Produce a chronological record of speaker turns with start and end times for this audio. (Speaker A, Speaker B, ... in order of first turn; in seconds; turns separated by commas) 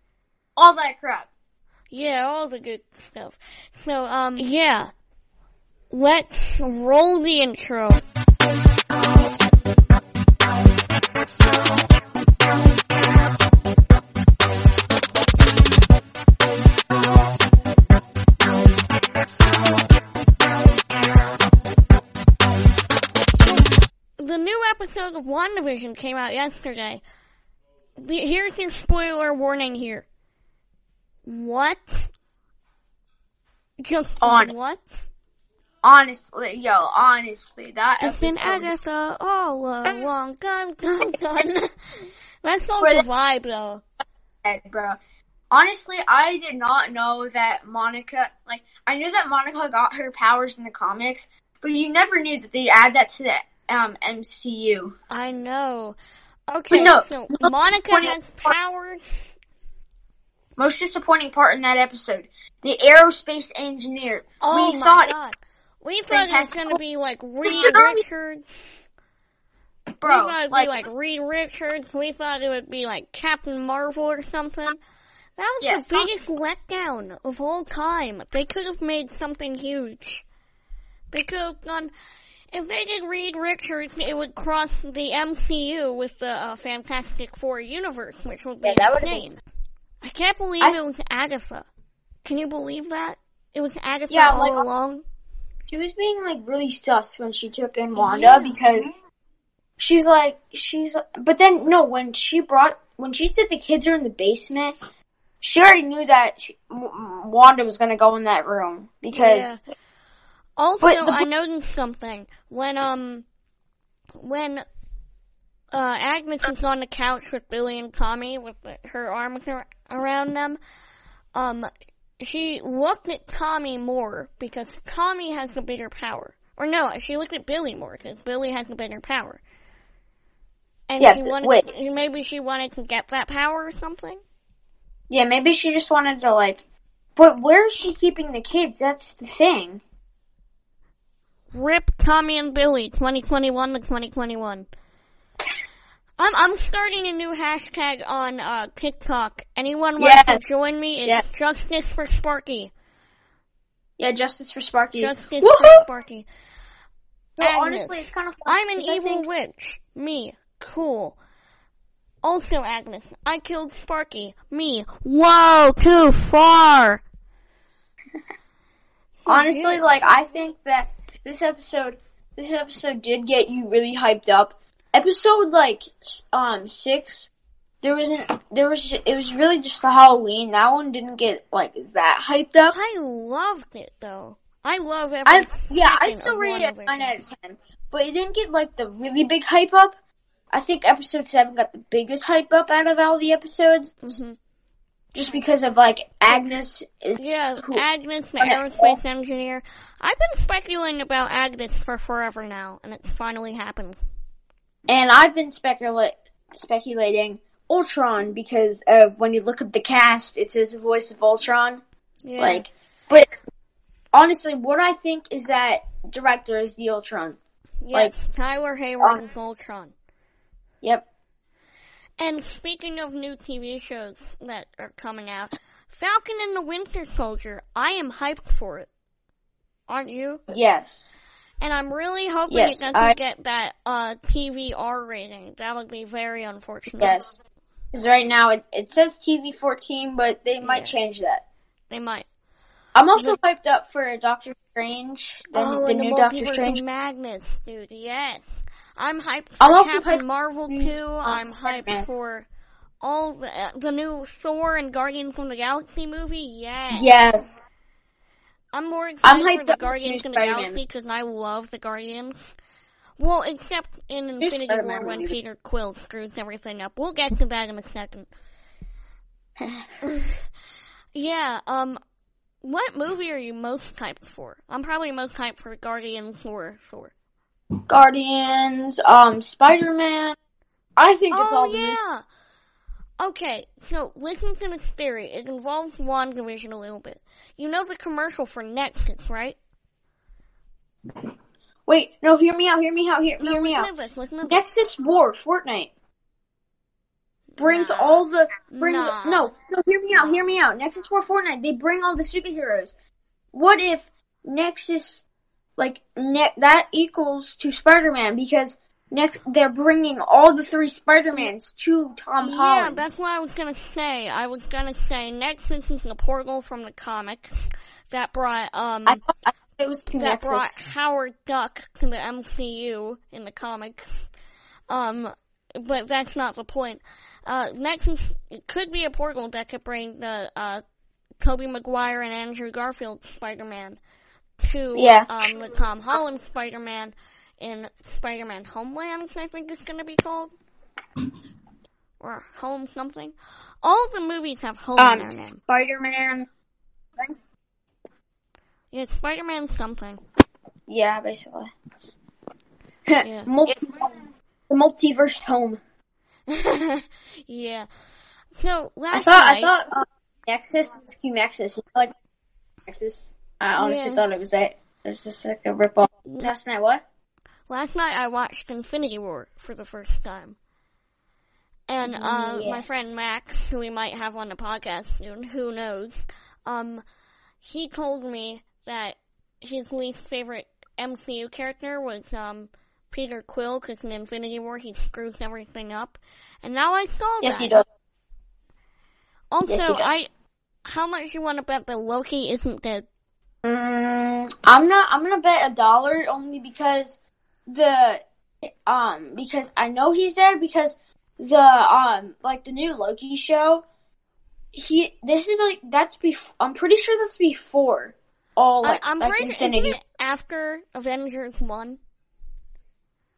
Speaker A: 0.6-1.3, Speaker B: 1.9-4.9, Speaker B: 5.9-8.0, Speaker B: 24.2-27.0, Speaker B: 28.0-30.1, Speaker B: 31.2-32.1, Speaker B: 33.8-34.8, Speaker A: 34.2-34.5, Speaker A: 35.8-38.7, Speaker B: 38.0-43.8, Speaker A: 44.4-45.0, Speaker A: 45.5-54.9, Speaker B: 55.1-56.0, Speaker B: 56.5-59.0, Speaker A: 56.7-58.5, Speaker A: 60.6-65.1, Speaker B: 64.4-68.6, Speaker A: 66.1-66.8, Speaker A: 67.4-68.0, Speaker A: 70.0-70.7, Speaker B: 70.0-74.8, Speaker B: 75.4-80.2, Speaker A: 75.6-76.1, Speaker B: 81.1-81.9, Speaker B: 82.5-89.4, Speaker A: 88.6-89.2, Speaker B: 90.0-91.7, Speaker B: 92.2-95.0, Speaker A: 94.1-94.7, Speaker A: 95.7-98.9, Speaker B: 97.9-98.6, Speaker A: 99.8-104.7, Speaker A: 105.4-109.5, Speaker B: 109.1-109.6, Speaker B: 110.6-113.2, Speaker A: 110.8-111.2, Speaker B: 114.2-114.6, Speaker B: 115.7-120.6, Speaker B: 121.3-121.7, Speaker B: 122.2-129.4, Speaker B: 130.9-134.2, Speaker A: 131.0-131.7, Speaker A: 135.1-136.6, Speaker A: 137.2-139.8, Speaker B: 141.5-144.7, Speaker B: 146.2-152.7, Speaker A: 150.0-150.4, Speaker A: 154.0-155.8, Speaker B: 155.0-156.3, Speaker A: 157.4-159.3, Speaker B: 157.4-161.2, Speaker B: 162.2-167.0, Speaker B: 169.2-169.9, Speaker A: 169.3-177.3, Speaker A: 177.8-182.8, Speaker B: 182.7-187.2, Speaker A: 185.2-189.9, Speaker A: 190.5-194.1, Speaker B: 194.0-194.3, Speaker A: 195.1-197.8, Speaker B: 197.2-204.0, Speaker A: 198.4-199.0, Speaker A: 204.9-211.8, Speaker B: 212.2-212.7, Speaker A: 212.4-213.3, Speaker A: 214.1-217.4, Speaker B: 217.8-219.9, Speaker B: 222.2-228.9, Speaker B: 229.9-230.4, Speaker A: 230.5-231.1, Speaker B: 231.6-237.2, Speaker A: 232.5-233.2, Speaker A: 237.0-237.3, Speaker A: 237.9-241.4, Speaker B: 240.6-240.9, Speaker B: 241.9-242.3, Speaker A: 242.9-246.8, Speaker B: 243.1-243.4, Speaker B: 245.5-252.5, Speaker A: 249.6-252.1, Speaker B: 253.0-257.1, Speaker A: 256.9-257.7, Speaker B: 258.7-262.4, Speaker A: 259.2-260.8, Speaker B: 263.2-268.3, Speaker A: 264.4-265.4, Speaker A: 269.6-269.9, Speaker B: 270.0-270.4, Speaker B: 271.1-272.0, Speaker B: 272.6-277.1, Speaker A: 277.9-280.4, Speaker A: 281.0-282.0, Speaker B: 281.3-282.2, Speaker B: 283.2-289.6, Speaker A: 291.9-293.9, Speaker B: 293.4-294.6, Speaker A: 294.4-295.9, Speaker B: 297.6-299.5, Speaker A: 297.6-302.9, Speaker B: 300.1-300.5, Speaker A: 303.5-305.2, Speaker A: 305.8-313.0, Speaker B: 312.4-317.6, Speaker B: 318.1-319.2, Speaker A: 319.1-320.8, Speaker B: 320.1-324.2, Speaker B: 324.9-330.8, Speaker B: 331.4-334.0, Speaker B: 334.6-340.5, Speaker A: 334.9-335.5, Speaker B: 342.2-345.6, Speaker A: 345.0-346.5, Speaker B: 348.9-350.2, Speaker A: 350.9-351.7, Speaker A: 353.1-355.8, Speaker B: 353.2-353.5, Speaker B: 356.5-357.9, Speaker B: 358.6-359.7, Speaker A: 359.1-362.1, Speaker A: 362.9-367.0, Speaker B: 363.8-364.2, Speaker B: 366.2-366.5, Speaker B: 367.7-370.6, Speaker B: 371.9-377.0, Speaker A: 372.0-372.9, Speaker B: 377.6-387.8, Speaker A: 387.4-387.8, Speaker B: 389.5-390.3, Speaker A: 389.6-390.1, Speaker B: 390.9-393.1, Speaker A: 393.6-403.8, Speaker A: 404.7-410.0, Speaker B: 408.8-412.0